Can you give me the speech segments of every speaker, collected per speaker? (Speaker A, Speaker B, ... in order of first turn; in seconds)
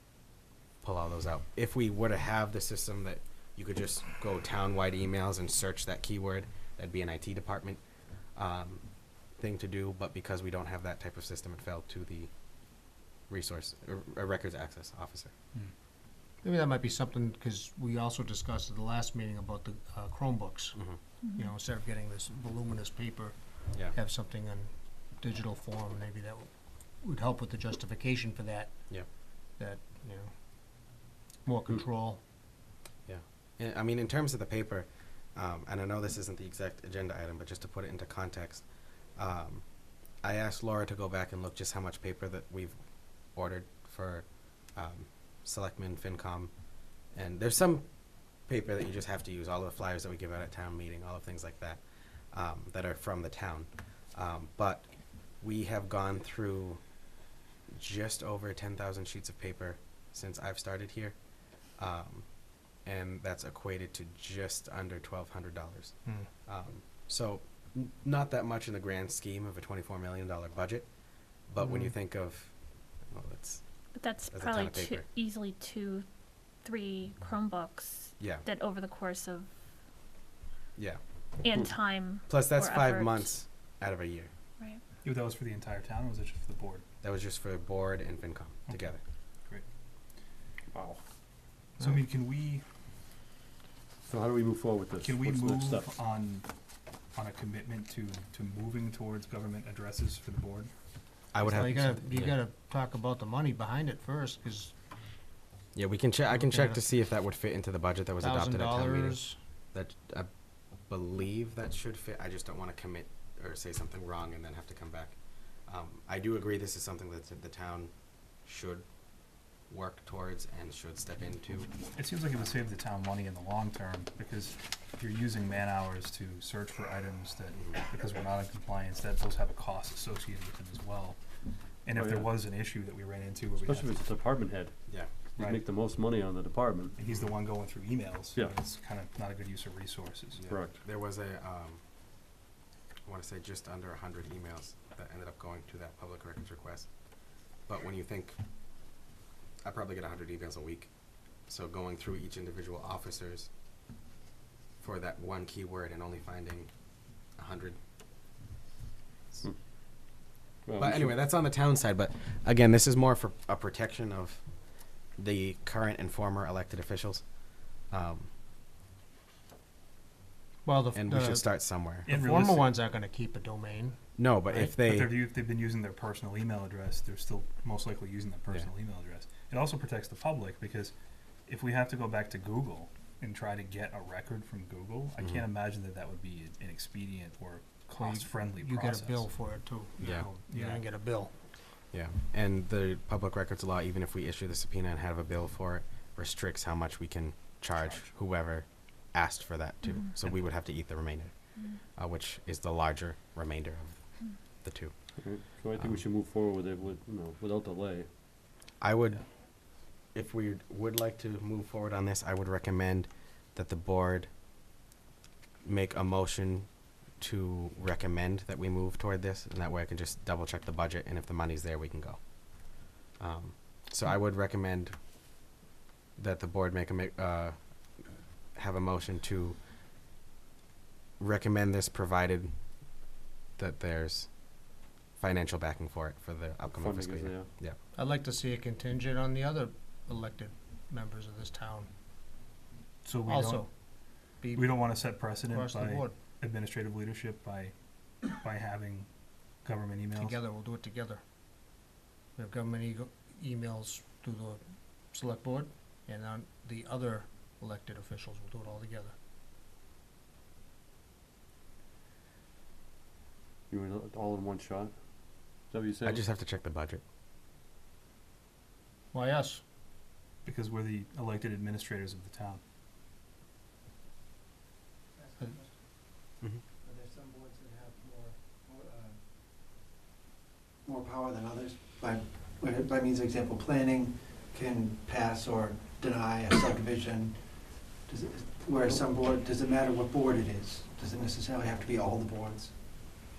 Speaker A: 0.8-7.8, 8.3-12.3, 13.3-15.3, 33.1-57.0, 57.7-61.2, 61.7-75.0, 78.2-78.4, 82.3-84.3, 87.0-89.0, 101.3-102.4, 105.7-109.2, 109.7-121.7, 140.4-141.8, 143.0-146.9, 147.7-148.4, 149.6-153.5, 154.8-157.8, 160.8-168.3, 170.9-172.1, 174.2-175.2, 190.0-190.3, 191.9-204.9, 205.7-206.0, 208.8-214.3, 215.6-225.0, 226.2-229.6, 231.2-232.8, 233.6-237.8, 266.0-267.0
Speaker B: 16.4-20.8, 21.3-26.5, 27.0-28.7, 29.6-30.3, 31.4-32.2, 71.6-71.9, 101.4-104.7, 106.3-106.8, 108.2-109.4, 170.6-174.7, 187.9-191.3, 237.9-241.9, 243.2-243.7, 244.4-244.8, 245.5-246.2, 250.2-251.2, 252.3-254.6, 255.1-259.1, 269.1-269.6
Speaker C: 21.2-21.5, 73.9-79.5, 81.4-83.3, 199.8-200.1
Speaker D: 85.0-86.8, 88.7-88.9, 91.8-92.6, 95.0-96.5, 97.1-100.7, 121.9-131.2, 131.8-134.0, 135.4-135.6, 136.9-140.4, 172.0-172.8, 174.7-180.9, 181.5-190.8, 243.0-243.7, 244.5-249.1, 249.6-250.3, 270.4-272.6
Speaker E: 90.7-91.0, 94.1-95.9, 131.9-132.4, 133.6-134.8, 135.3-137.0, 140.4-140.8, 160.7-161.2, 205.2-208.1, 236.7-237.5, 263.7-266.2
Speaker F: 275.1-276.1, 276.8-279.2, 280.8-293.0